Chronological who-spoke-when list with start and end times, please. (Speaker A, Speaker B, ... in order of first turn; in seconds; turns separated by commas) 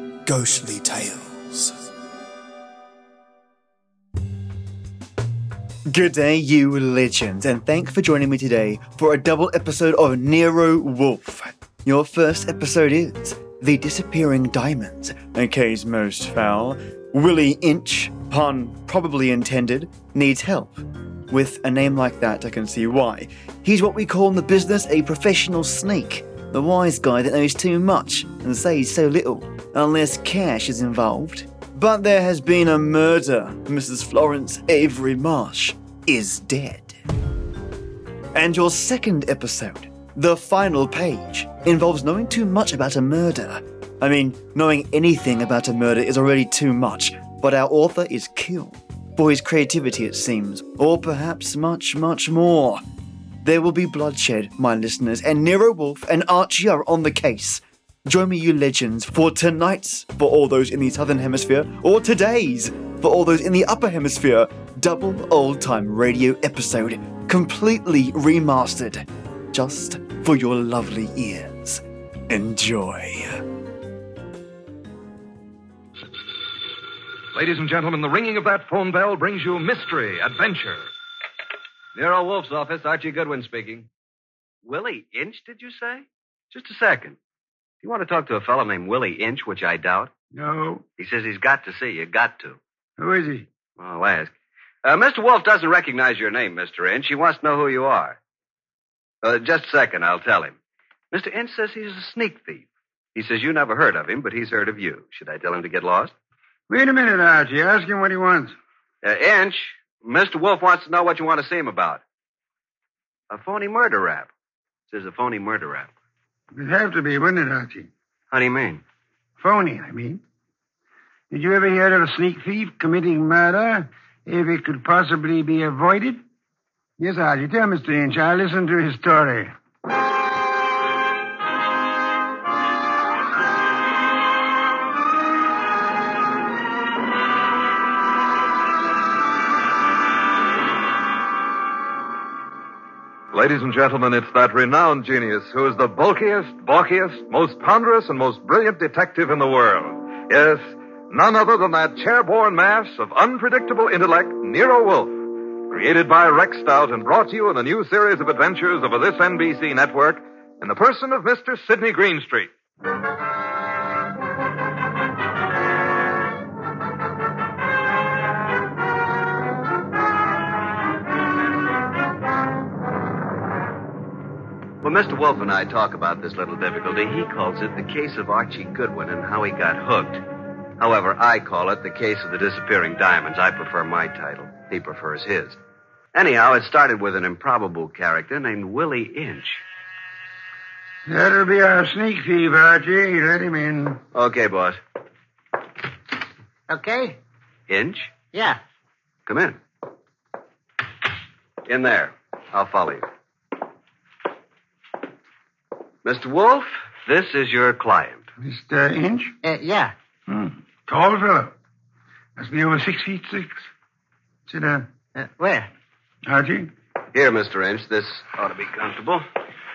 Speaker A: 0.2-1.8, Speaker A: 5.9-37.0, Speaker A: 38.3-52.8, Speaker A: 53.4-73.4, Speaker B: 77.3-80.9, Speaker C: 82.0-83.9, Speaker C: 84.6-87.2, Speaker C: 87.8-90.1, Speaker D: 90.3-90.8, Speaker C: 91.0-92.6, Speaker D: 93.0-93.5, Speaker C: 93.8-94.3, Speaker C: 94.8-98.2, Speaker C: 99.2-100.5, Speaker C: 101.1-106.1, Speaker D: 106.7-108.5, Speaker C: 109.0-112.0, Speaker C: 113.3-114.3, Speaker C: 114.9-115.9, Speaker D: 116.5-117.9, Speaker C: 118.3-118.8, Speaker D: 119.4-120.2, Speaker D: 121.3-126.2, Speaker D: 127.0-129.5, Speaker B: 143.3-162.5, Speaker C: 174.8-180.2, Speaker C: 180.8-185.6, Speaker C: 186.1-189.6, Speaker D: 191.1-194.0, Speaker C: 194.1-194.8, Speaker E: 196.7-197.2, Speaker C: 197.7-198.2, Speaker E: 198.3-198.6, Speaker C: 199.3-199.6, Speaker C: 201.7-203.1, Speaker C: 206.0-208.3, Speaker D: 208.4-209.4, Speaker E: 209.4-209.9, Speaker D: 210.3-211.5, Speaker D: 212.4-213.6, Speaker D: 214.5-214.9, Speaker E: 215.2-215.7, Speaker D: 216.3-216.7, Speaker C: 217.1-219.3